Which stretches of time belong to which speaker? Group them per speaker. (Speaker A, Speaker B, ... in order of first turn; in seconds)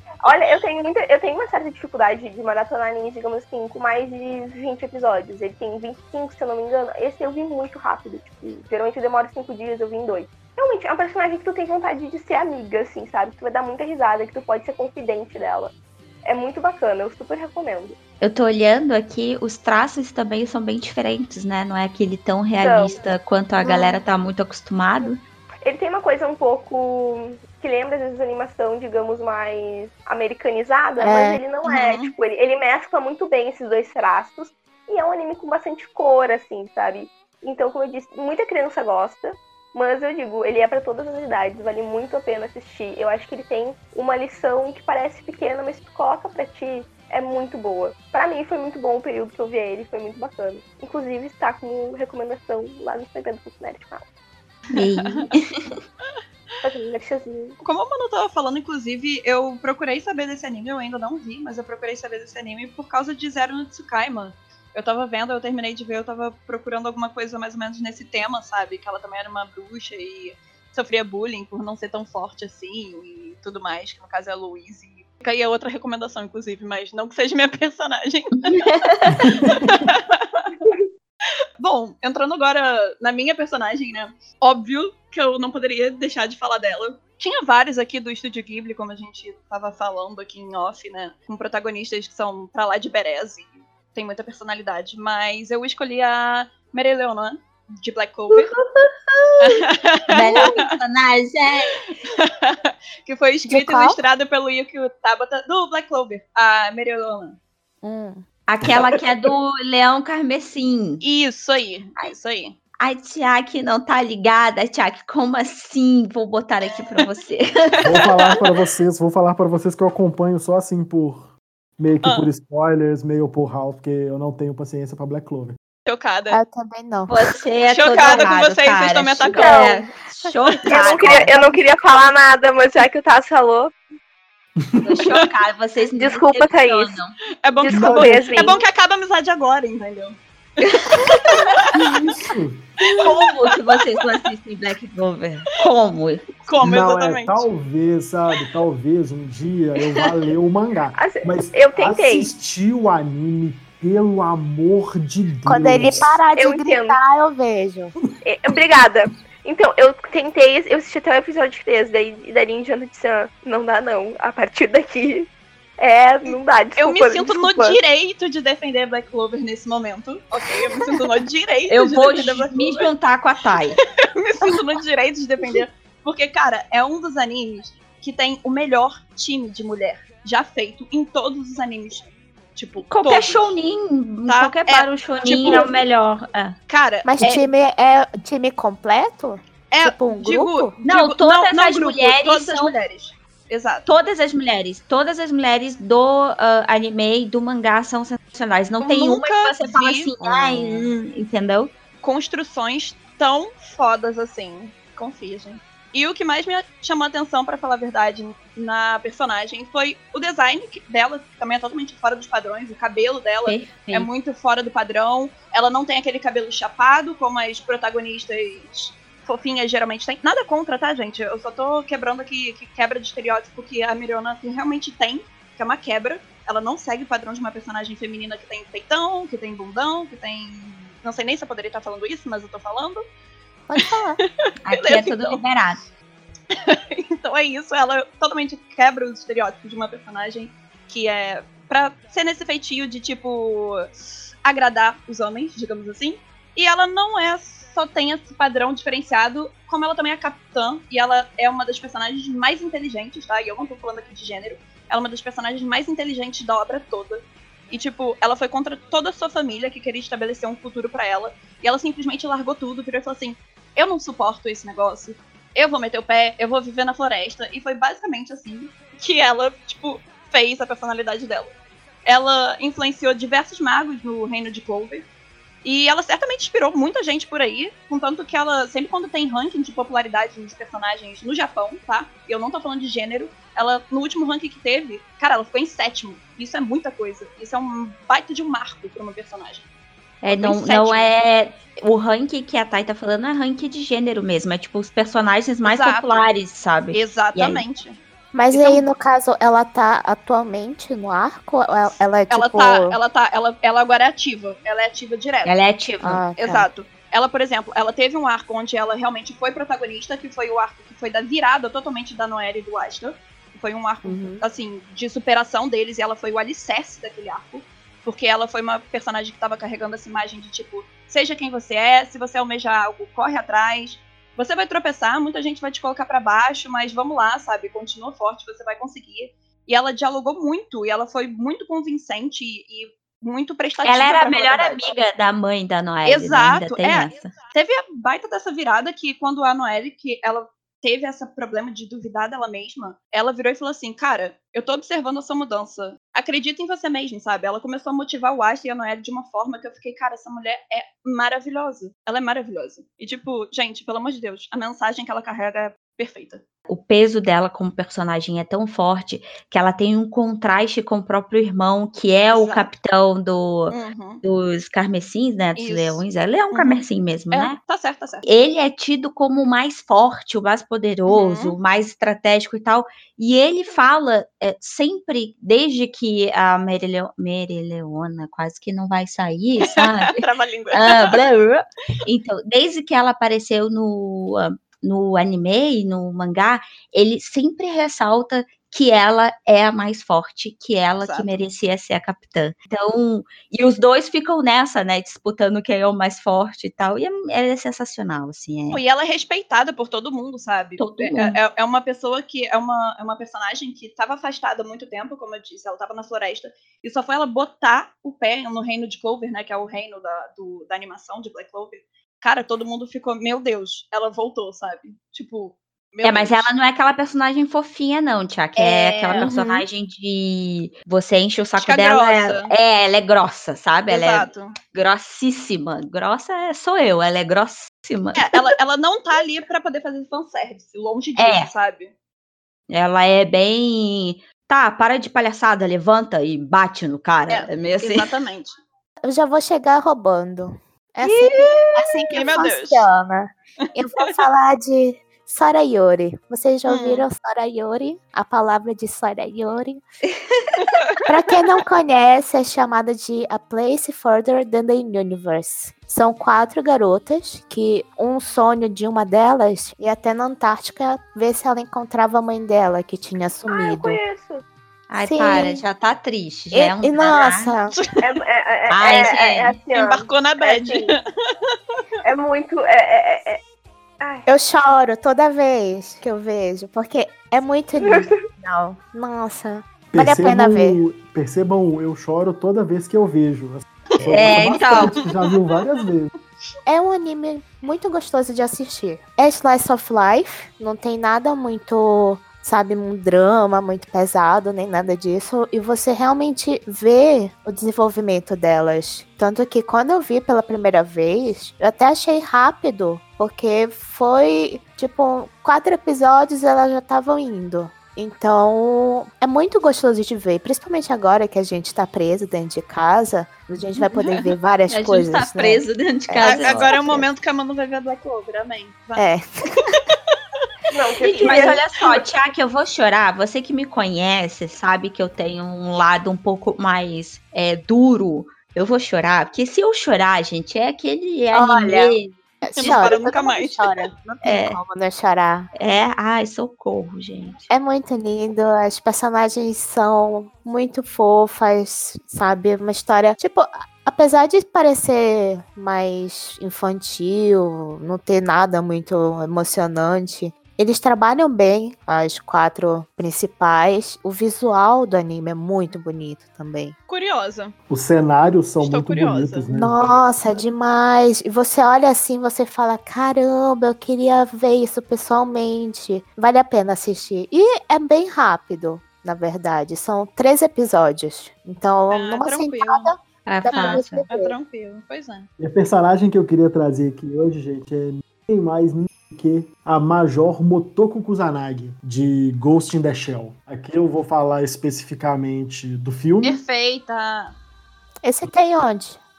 Speaker A: 0.2-17.9, 22.6-22.9, 25.6-54.0, 56.6-57.6, 129.4-129.8, 130.7-133.7, 136.0-137.0, 137.6-138.6, 150.9-152.3, 156.4-157.0, 158.2-167.8, 463.5-464.4, 468.0-471.0, 472.0-473.4, 474.0-474.2, 477.8-478.1, 520.7-522.0
Speaker B: 18.2-25.2, 54.7-55.8, 78.4-79.2, 98.3-101.9, 108.5-111.0, 112.8-118.3, 127.1-131.3, 134.8-137.2, 140.6-141.0, 142.9-146.4, 171.7-173.8, 182.9-186.6, 190.8-192.8, 193.9-201.7, 213.4-214.1, 234.6-235.8, 290.2-297.6, 305.4-306.2, 333.8-337.4, 356.7-367.6, 368.2-398.8, 400.8-401.4, 416.0-428.5, 431.1-431.5, 432.7-438.1, 441.0-441.7, 464.9-467.6, 468.7-469.6, 484.1-485.0, 514.7-516.9, 521.0-532.1, 534.2-534.6, 535.6-537.5, 573.2-574.1
Speaker C: 23.6-24.0, 31.0-31.4, 103.5-104.0, 107.8-108.2, 126.3-127.1, 131.0-131.6, 155.4-157.9, 187.1-190.7, 200.2-200.8, 233.7-234.2, 298.3-303.0, 306.0-306.7, 314.0-314.4, 439.0-449.8, 451.1-464.0, 465.0-465.6, 466.5-467.7, 474.2-480.8, 486.6-517.1, 519.0-519.8, 531.3-535.5, 537.5-556.7, 559.5-574.4, 588.0-589.0
Speaker D: 31.6-32.1, 54.7-55.3, 57.6-78.6, 79.4-80.7, 81.6-98.5, 99.4-100.7, 101.9-107.4, 108.7-109.0, 111.0-112.6, 118.0-118.4, 122.0-122.3, 125.9-126.4, 127.7-129.7, 130.6-130.9, 137.4-141.7, 142.9-144.1, 146.4-147.5, 166.3-172.9, 173.8-183.5, 184.3-185.7, 186.7-187.5, 189.7-193.9, 198.8-200.1, 202.0-233.0, 233.8-235.4, 236.5-271.5, 272.1-275.1, 275.6-289.6, 290.3-291.1, 295.6-296.3, 296.9-298.0, 298.5-298.8, 302.3-305.6, 306.4-334.8, 336.1-356.4, 362.3-362.7, 363.7-364.2, 365.6-368.2, 371.1-371.6, 379.7-381.2, 391.0-391.3, 398.7-416.5, 418.6-419.6, 421.6-422.5, 423.9-424.6, 428.1-431.9, 437.3-438.6, 441.4-442.9, 446.7-447.1, 467.7-468.0, 469.7-471.0, 484.8-485.6, 516.2-519.1, 532.6-533.9, 556.9-557.5, 558.6-559.5, 571.9-572.9, 573.5-575.3, 586.2-587.4
Speaker E: 79.1-79.8, 117.8-125.6, 134.6-135.1, 137.7-138.6, 142.2-142.8, 146.6-156.1, 479.9-486.1, 557.7-560.0, 575.4-586.4